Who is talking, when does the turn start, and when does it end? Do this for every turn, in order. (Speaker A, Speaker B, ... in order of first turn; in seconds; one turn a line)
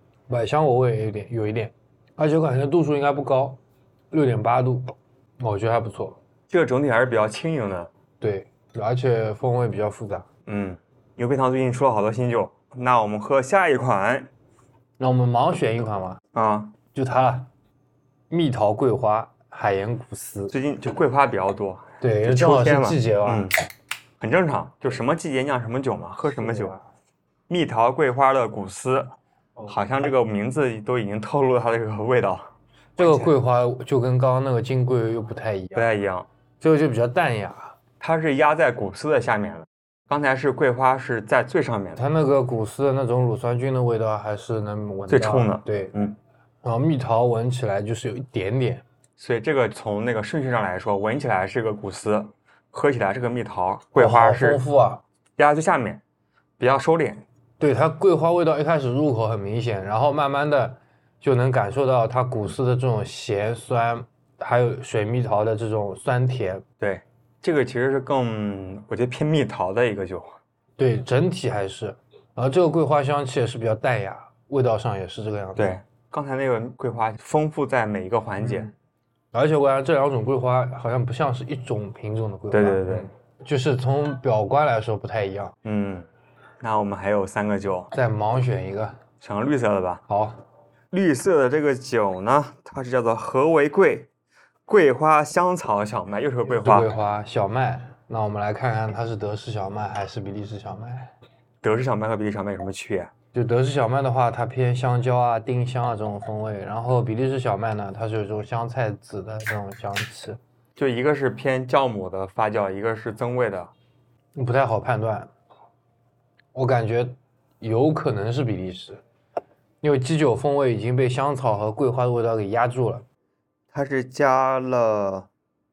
Speaker A: 0.3-3.6
Speaker A: 4.1-6.2
Speaker B: 6.5-7.9
Speaker A: 8.2-10.2
Speaker B: 10.4-14.3
Speaker A: 15.0-16.2
Speaker B: 16.3-16.7
Speaker A: 16.9-17.5
Speaker A: 18.3-20.5
Speaker B: 20.5-23.5
Speaker A: 22.0-23.5
Speaker B: 24.2-26.8
Speaker A: 26.3-26.8
Speaker B: 27.5-29.1
Speaker B: 29.7-33.3
Speaker A: 33.0-35.9
Speaker B: 35.7-36.3
Speaker A: 36.6-37.7
Speaker B: 38.0-42.0
Speaker A: 42.0-45.9
Speaker B: 45.1-46.2
Speaker A: 46.6-48.8
Speaker B: 49.2-54.6
Speaker A: 54.0-55.0
Speaker B: 55.4-56.0
Speaker B: 56.6-57.2
Speaker A: 57.6-66.6
Speaker B: 66.8-70.4
Speaker A: 70.8-75.7
Speaker B: 75.5-78.7
Speaker A: 78.4-78.7
Speaker A: 79.3-85.5
Speaker B: 82.5-83.1
Speaker B: 85.6-86.1
Speaker B: 86.6-87.9
Speaker A: 87.9-89.0
Speaker B: 89.2-90.0
Speaker A: 90.1-90.4
Speaker B: 90.9-94.1
Speaker B: 94.7-96.9
Speaker A: 96.5-101.1
Speaker B: 101.6-103.1
Speaker A: 103.3-110.4
Speaker B: 110.8-113.7
Speaker A: 114.3-115.3
Speaker A: 116.5-119.0
Speaker A: 119.8-123.0
Speaker B: 123.7-125.3